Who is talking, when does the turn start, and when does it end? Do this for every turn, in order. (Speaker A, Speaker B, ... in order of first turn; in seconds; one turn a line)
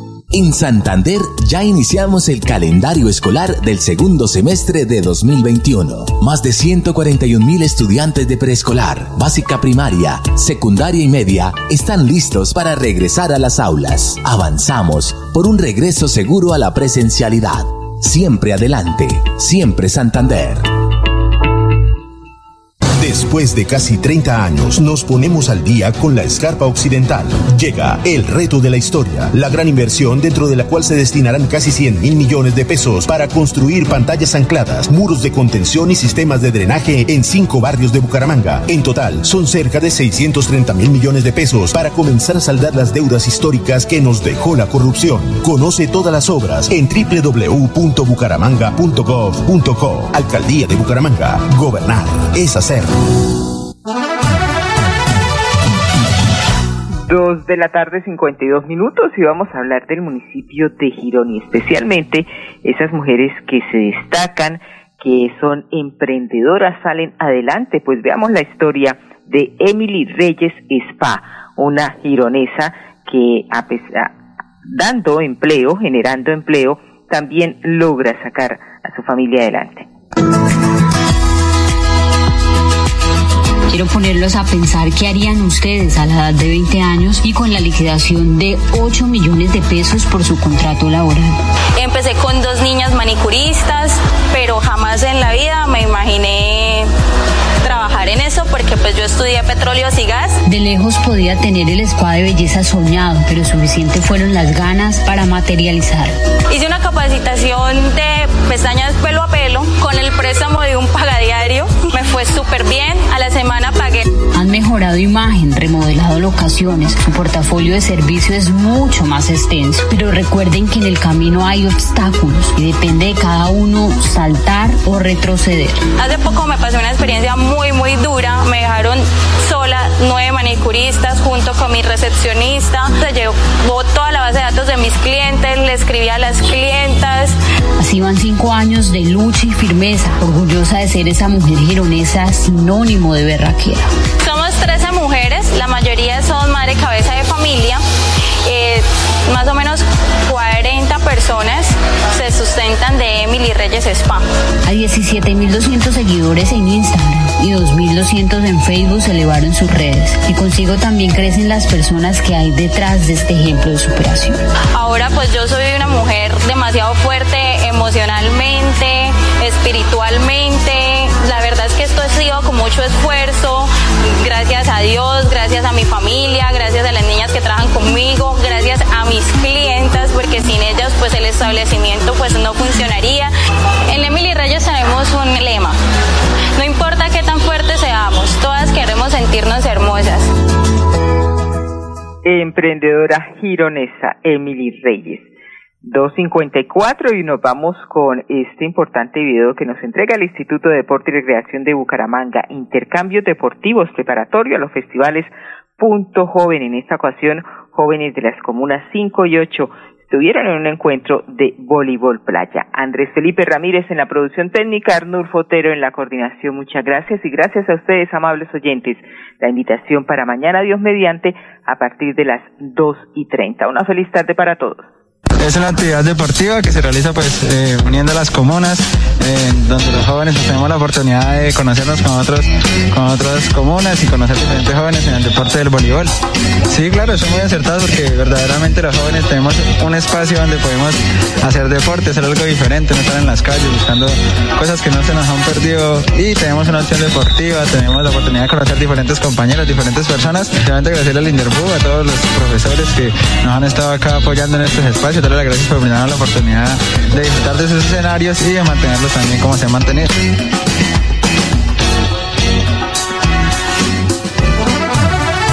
Speaker A: 0.3-20.6
Speaker B: 23.0-52.9
Speaker C: 57.1-79.9
Speaker D: 83.7-91.3
Speaker E: 91.8-96.9
Speaker E: 97.6-100.4
Speaker D: 100.5-106.1
Speaker E: 106.5-114.0
Speaker D: 114.3-125.8
Speaker E: 126.0-137.3
Speaker D: 137.8-143.9
Speaker E: 144.2-147.8
Speaker E: 148.4-154.2
Speaker D: 154.7-164.4
Speaker E: 164.7-183.3
Speaker E: 183.9-185.8
Speaker E: 186.6-190.3
Speaker C: 192.2-195.3
Speaker C: 195.8-224.9
Speaker F: 225.4-236.1
Speaker F: 236.7-260.1